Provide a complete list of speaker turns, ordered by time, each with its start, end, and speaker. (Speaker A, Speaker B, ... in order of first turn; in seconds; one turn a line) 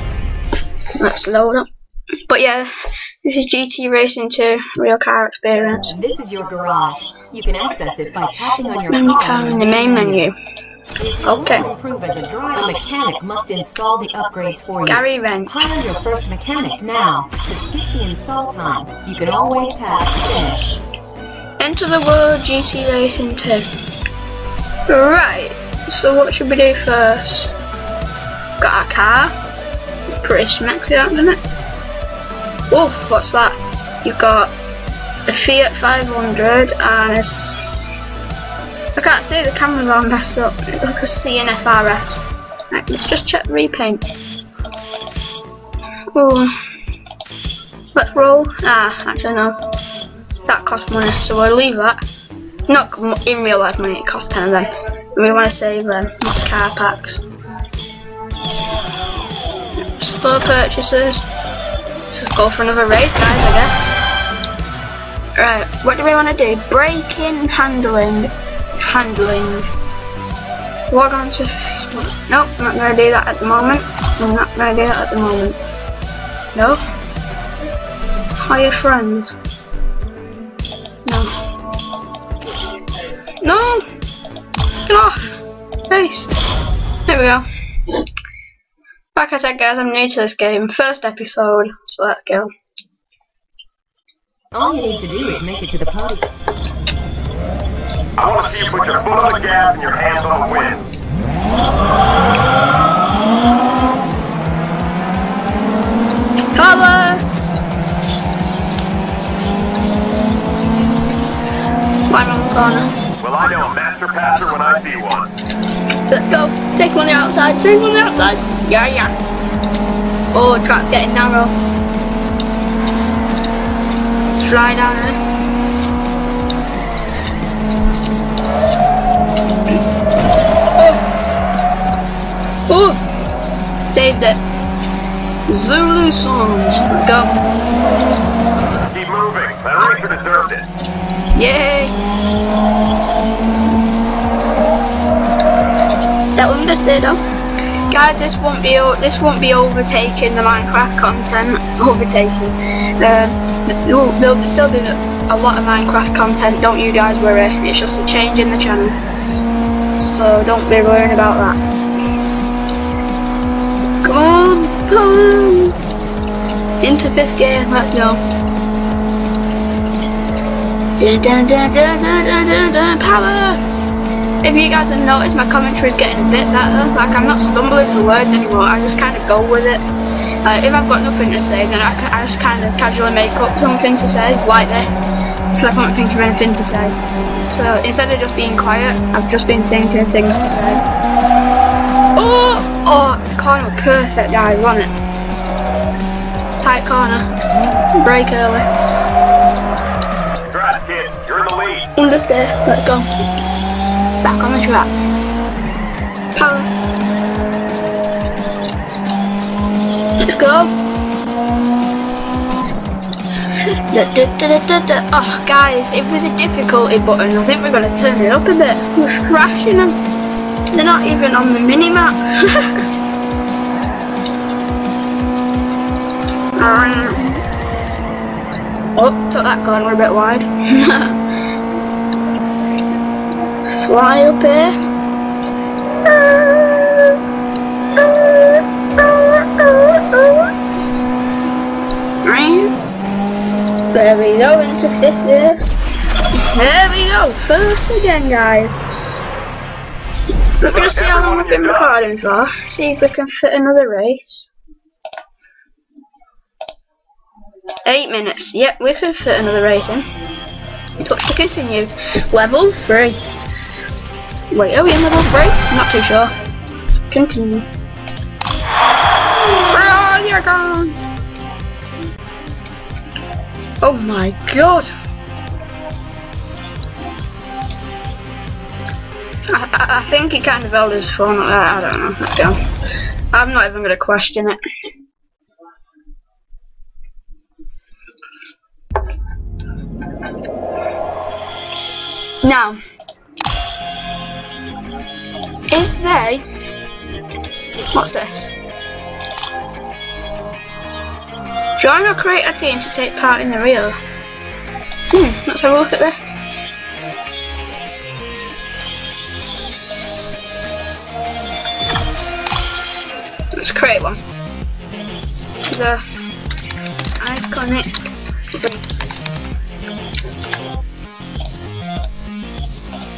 Speaker A: 1.0-1.7
Speaker A: 2.3-2.7
Speaker A: 3.2-5.9
Speaker B: 5.8-10.3
Speaker A: 8.9-10.3
Speaker B: 11.0-20.8
Speaker A: 11.2-11.7
Speaker A: 14.8-15.6
Speaker A: 21.6-23.6
Speaker A: 24.9-27.5
Speaker A: 28.6-29.3
Speaker A: 30.2-31.4
Speaker A: 32.7-34.5
Speaker A: 35.3-38.1
Speaker A: 38.9-44.0
Speaker A: 46.1-46.5
Speaker A: 47.9-49.6
Speaker A: 50.5-52.0
Speaker A: 52.7-57.2
Speaker A: 59.8-61.3
Speaker A: 62.1-63.9
Speaker A: 65.4-68.3
Speaker A: 68.8-69.7
Speaker A: 70.9-75.6
Speaker A: 76.5-76.8
Speaker A: 78.4-79.3
Speaker A: 81.0-81.3
Speaker A: 83.4-83.8
Speaker A: 84.8-86.3
Speaker A: 87.1-87.4
Speaker A: 89.1-92.5
Speaker B: 94.5-96.3
Speaker C: 98.2-100.8
Speaker A: 106.5-107.2
Speaker A: 112.0-112.9
Speaker C: 113.2-115.3
Speaker A: 116.1-119.1
Speaker A: 120.3-121.5
Speaker A: 124.3-125.2
Speaker A: 130.8-131.0
Speaker A: 132.7-133.0
Speaker A: 133.9-134.4
Speaker A: 135.5-137.4
Speaker C: 138.9-140.7
Speaker A: 141.3-141.9
Speaker A: 146.3-147.2
Speaker A: 147.9-159.0
Speaker A: 160.0-161.6
Speaker A: 164.0-165.8
Speaker A: 166.8-168.2
Speaker A: 171.0-173.6
Speaker A: 174.4-179.8
Speaker A: 180.4-186.9
Speaker A: 187.5-190.8
Speaker A: 192.2-194.9
Speaker A: 196.6-197.2
Speaker A: 198.0-198.7
Speaker C: 200.5-201.9
Speaker A: 201.9-203.1
Speaker A: 204.2-204.9
Speaker A: 206.3-206.7
Speaker A: 210.2-210.7
Speaker A: 213.9-220.0
Speaker A: 220.7-222.7
Speaker A: 226.6-227.4
Speaker A: 228.9-231.2
Speaker A: 233.7-234.7
Speaker A: 236.0-237.2
Speaker A: 237.9-240.5
Speaker A: 242.2-242.7
Speaker A: 243.9-245.6
Speaker A: 246.3-248.8
Speaker A: 250.6-254.5
Speaker C: 250.7-251.9
Speaker A: 257.8-260.1
Speaker A: 261.0-263.2
Speaker A: 264.5-266.3
Speaker A: 267.1-267.7
Speaker A: 269.4-271.0
Speaker A: 273.8-274.9
Speaker A: 279.5-282.6
Speaker A: 283.3-284.6
Speaker A: 292.4-292.8
Speaker A: 295.7-296.4
Speaker A: 297.9-298.5
Speaker A: 301.8-304.0
Speaker A: 305.1-306.4
Speaker A: 313.6-314.2
Speaker A: 315.7-316.0
Speaker A: 317.2-317.9
Speaker A: 318.5-319.3